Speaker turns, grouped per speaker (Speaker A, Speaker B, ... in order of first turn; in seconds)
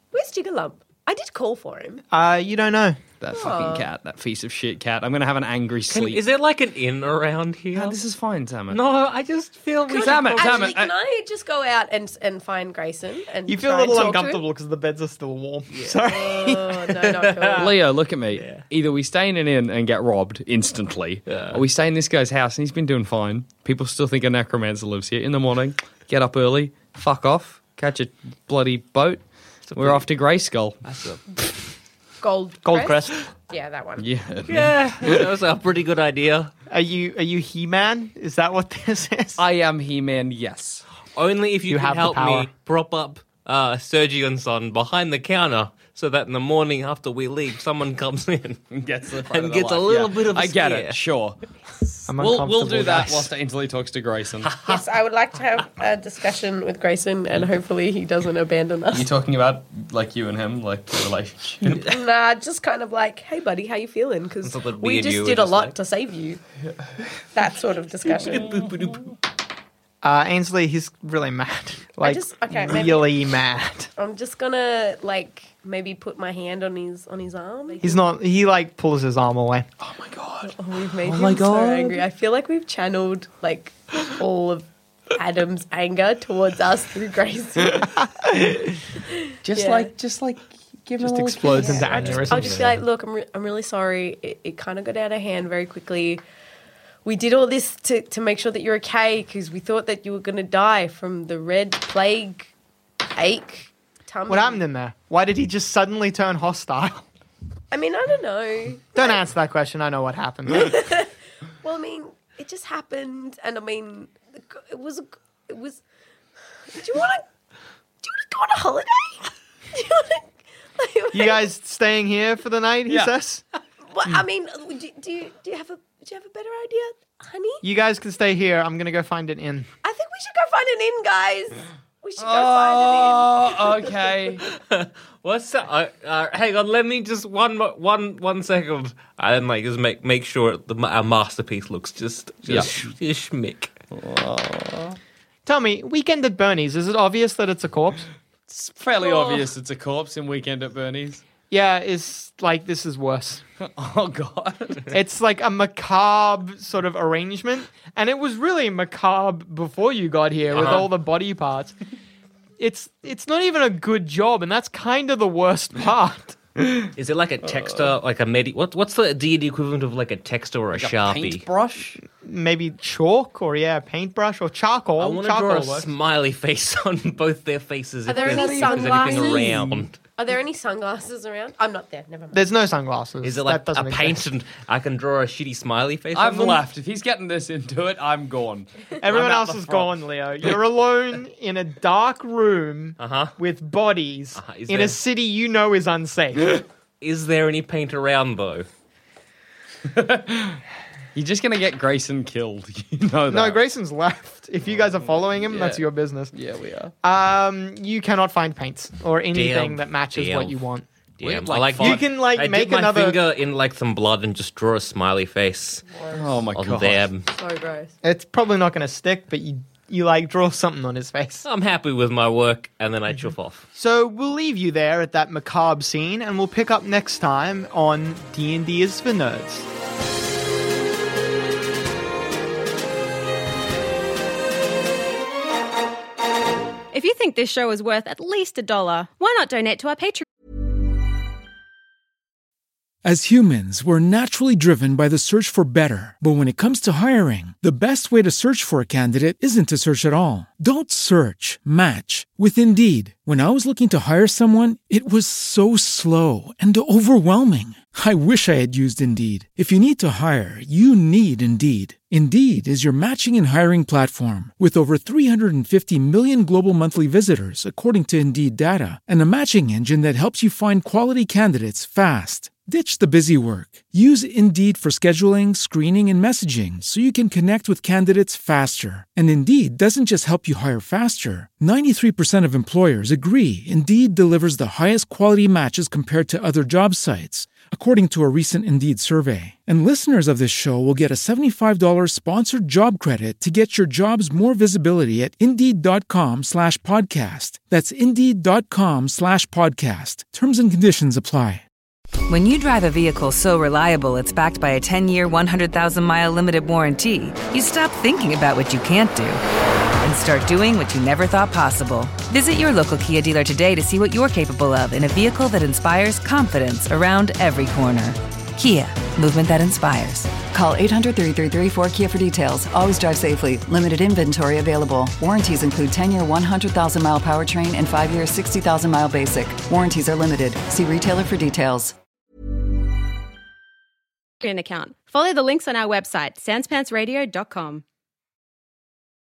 Speaker A: 0.1-2.0, 3.3-3.9, 9.9-14.4, 16.1-17.7, 32.2-34.0, 54.6-59.1, 61.9-66.4, 67.3-68.5, 72.0-73.1, 74.0-78.1, 80.4-87.9, 89.1-89.9, 91.6-96.2, 97.0-102.5, 103.2-104.6, 107.7-109.2, 110.5-111.1, 111.6-115.8, 116.7-117.2, 118.0-121.5, 123.9-127.6, 129.8-134.0, 149.0-149.4, 178.1-179.5, 180.2-182.5, 217.3-217.9
Speaker B: 2.1-3.0, 13.5-16.8, 32.6-33.2, 36.7-39.4, 41.6-42.5, 52.1-53.3, 70.0-73.9, 77.8-79.7, 91.0-92.8, 104.3-107.1, 108.9-110.9, 121.1-123.4, 127.6-129.7, 145.4-148.1, 151.5-153.4, 154.9-161.7, 162.6-166.4, 172.0-175.9, 182.3-184.2, 189.0-196.6, 203.3-206.3, 207.0-213.2, 218.0-221.4, 223.8-229.7
Speaker C: 3.2-6.2, 7.7-8.8, 9.9-10.9, 17.6-29.2, 29.7-30.8, 34.0-35.3, 39.4-40.8, 48.7-54.5, 58.9-61.9, 79.8-82.0, 87.8-88.7, 89.4-92.2, 122.9-123.1, 132.2-134.4, 142.5-142.8, 143.9-145.0, 148.5-151.2, 153.6-154.9, 170.8-172.0, 178.1-179.9, 186.1-190.5, 199.8-200.6, 201.1-203.6, 205.3-206.9, 211.2-212.0, 216.1-217.1
Speaker D: 5.9-8.0, 8.7-10.8, 15.7-16.1, 16.9-17.8, 18.3-18.6, 21.3-21.6, 29.7-30.0, 30.8-31.2, 34.5-36.5, 41.1-48.6, 49.2-51.0, 54.4-54.8, 64.4-65.8, 68.1-69.1, 91.9-92.7, 134.5-143.7, 160.5-160.9, 166.9-171.4, 175.0-180.0, 183.2-186.6, 193.0-193.3, 194.3-195.0, 197.0-198.7, 209.3-210.6, 211.2-215.8, 216.5-217.3, 221.4-223.7
Speaker E: 236.9-240.2, 334.4-337.8
Speaker F: 243.0-301.6
Speaker G: 302.3-309.4, 310.0-320.5
Speaker H: 320.4-331.9